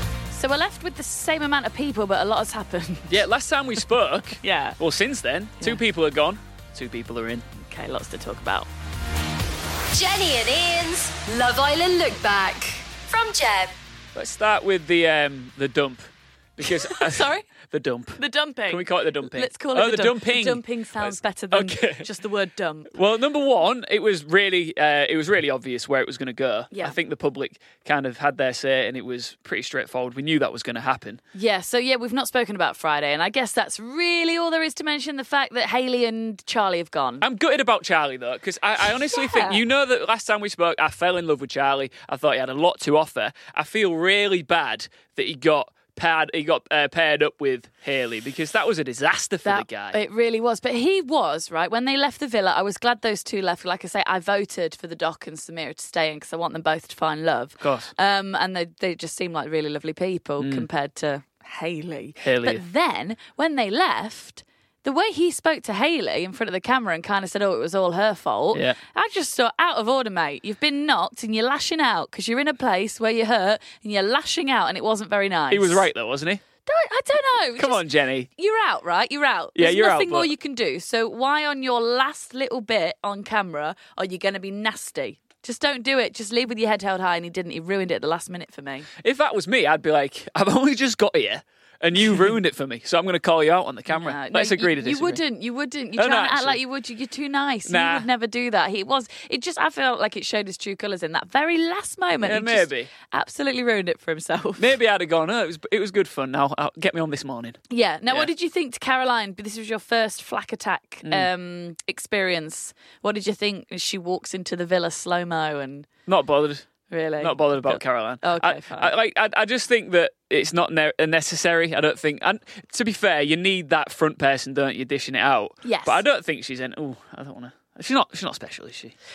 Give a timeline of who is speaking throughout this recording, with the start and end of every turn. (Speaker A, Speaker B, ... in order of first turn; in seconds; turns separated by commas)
Speaker A: 0.3-3.1, Speaker B: 3.1-7.5, Speaker A: 4.4-4.8, Speaker A: 7.6-8.7, Speaker C: 9.9-13.7, Speaker B: 14.2-16.1, Speaker B: 16.6-22.1, Speaker A: 16.6-17.5, Speaker A: 18.2-22.9, Speaker B: 22.9-31.2, Speaker A: 26.7-27.0, Speaker A: 31.3-37.2, Speaker B: 37.2-50.0, Speaker A: 39.1-39.6, Speaker A: 49.4-75.9, Speaker B: 57.6-57.9, Speaker B: 60.4-60.7, Speaker B: 62.2-62.6, Speaker B: 75.5-76.4, Speaker A: 76.7-88.9, Speaker B: 77.6-78.3, Speaker B: 79.6-80.3, Speaker B: 89.0-95.2, Speaker A: 93.9-104.8, Speaker B: 96.0-96.6, Speaker B: 97.7-98.1, Speaker B: 102.2-102.9, Speaker B: 104.6-107.6, Speaker A: 107.7-115.9, Speaker B: 116.1-116.7, Speaker A: 116.9-118.9, Speaker B: 117.2-128.9, Speaker A: 125.6-126.0